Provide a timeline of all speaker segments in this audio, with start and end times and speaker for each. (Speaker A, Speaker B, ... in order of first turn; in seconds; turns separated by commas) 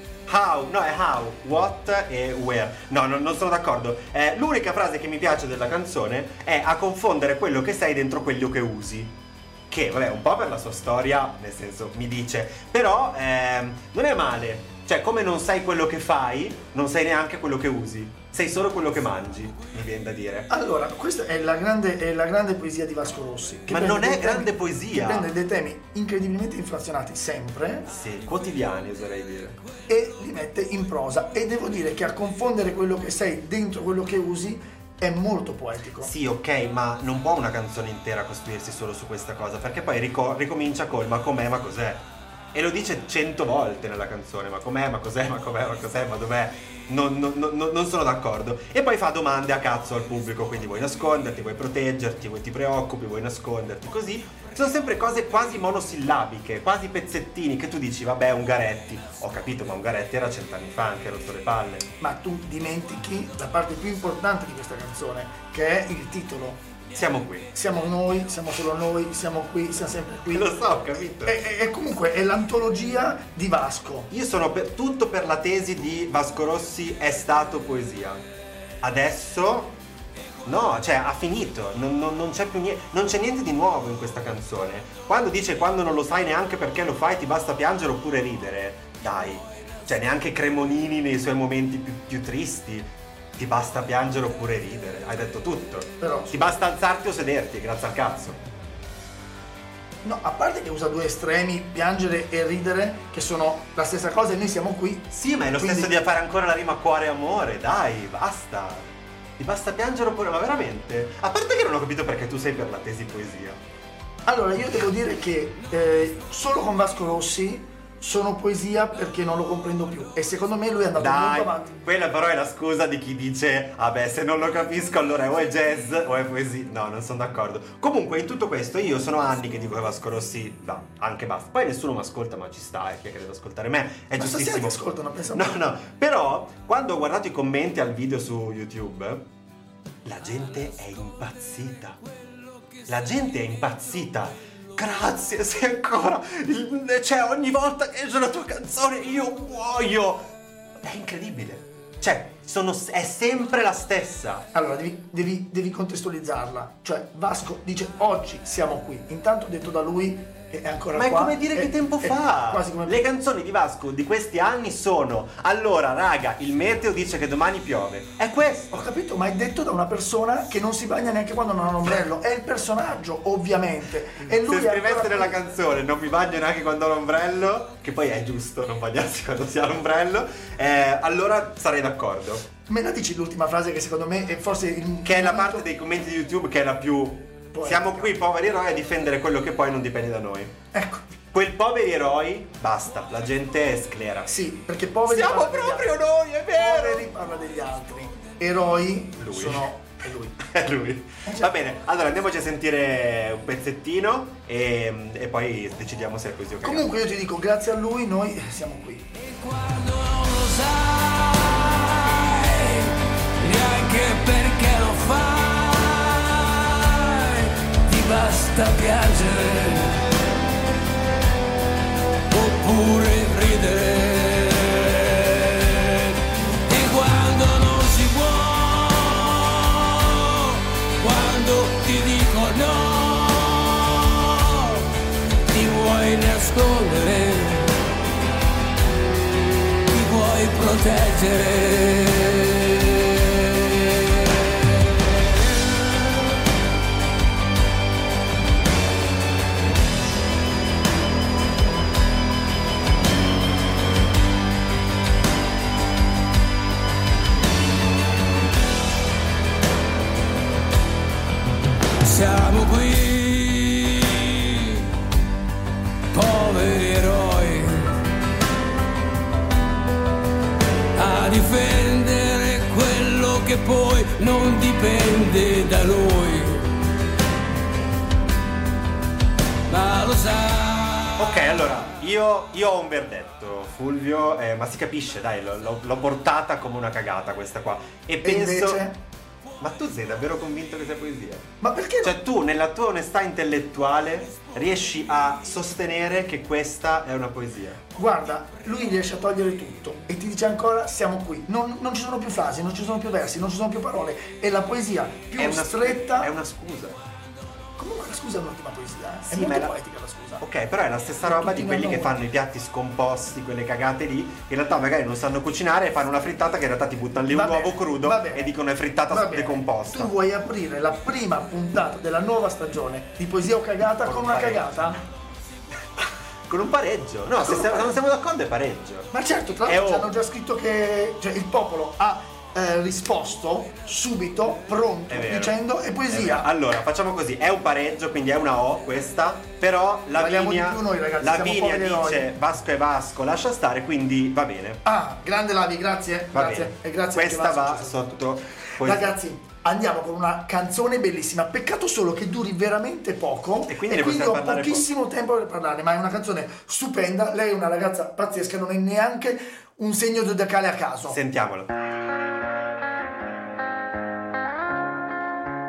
Speaker A: 0.2-9.1, Speaker A: 9.7-20.5, Speaker B: 20.5-27.9, Speaker A: 23.7-25.3, Speaker A: 27.9-29.6, Speaker B: 29.9-36.1, Speaker A: 36.0-61.9, Speaker B: 62.0-66.6, Speaker A: 66.9-67.5, Speaker B: 67.5-70.5, Speaker A: 70.3-71.4, Speaker B: 71.2-74.1, Speaker A: 74.1-78.2, Speaker A: 78.8-79.8, Speaker A: 80.5-98.4, Speaker B: 96.0-96.5, Speaker B: 100.0-105.9, Speaker A: 105.1-108.9, Speaker A: 109.4-113.6, Speaker B: 114.2-121.8, Speaker A: 121.0-134.8, Speaker B: 134.2-135.6, Speaker A: 135.3-139.2, Speaker A: 140.0-142.0, Speaker A: 142.8-150.3, Speaker A: 150.8-154.4, Speaker B: 154.5-163.0, Speaker A: 160.9-168.8, Speaker B: 168.7-175.4, Speaker A: 174.2-182.5, Speaker B: 182.7-185.6, Speaker A: 185.0-190.5, Speaker B: 187.5-188.1, Speaker B: 190.7-191.0, Speaker A: 191.3-194.4, Speaker B: 194.2-195.9, Speaker A: 195.1-197.1, Speaker B: 196.5-200.4, Speaker A: 199.2-199.7, Speaker A: 200.4-206.9, Speaker B: 201.2-201.5, Speaker B: 206.6-209.0, Speaker C: 209.3-220.0, Speaker C: 222.3-234.8, Speaker C: 235.5-237.8, Speaker C: 239.9-244.5, Speaker C: 262.0-264.8, Speaker C: 266.1-267.9, Speaker C: 270.9-276.7, Speaker C: 279.7-281.2, Speaker A: 281.2-288.8, Speaker B: 288.2-289.0, Speaker A: 289.6-291.5, Speaker B: 291.6-292.1, Speaker A: 292.0-297.8, Speaker B: 297.9-306.3, Speaker A: 305.4-307.0, Speaker B: 307.8-310.4, Speaker A: 309.3-309.7, Speaker A: 310.4-320.1, Speaker B: 311.2-312.1, Speaker B: 317.3-318.5, Speaker B: 319.1-325.0, Speaker A: 324.0-325.0, Speaker A: 326.0-329.1, Speaker B: 327.4-327.9, Speaker B: 329.1-336.5, Speaker A: 329.6-330.1, Speaker A: 335.1-344.8, Speaker B: 340.1-342.3, Speaker B: 344.8-348.1, Speaker A: 346.3-349.2, Speaker B: 348.8-361.2, Speaker A: 353.6-354.9, Speaker A: 361.1-361.7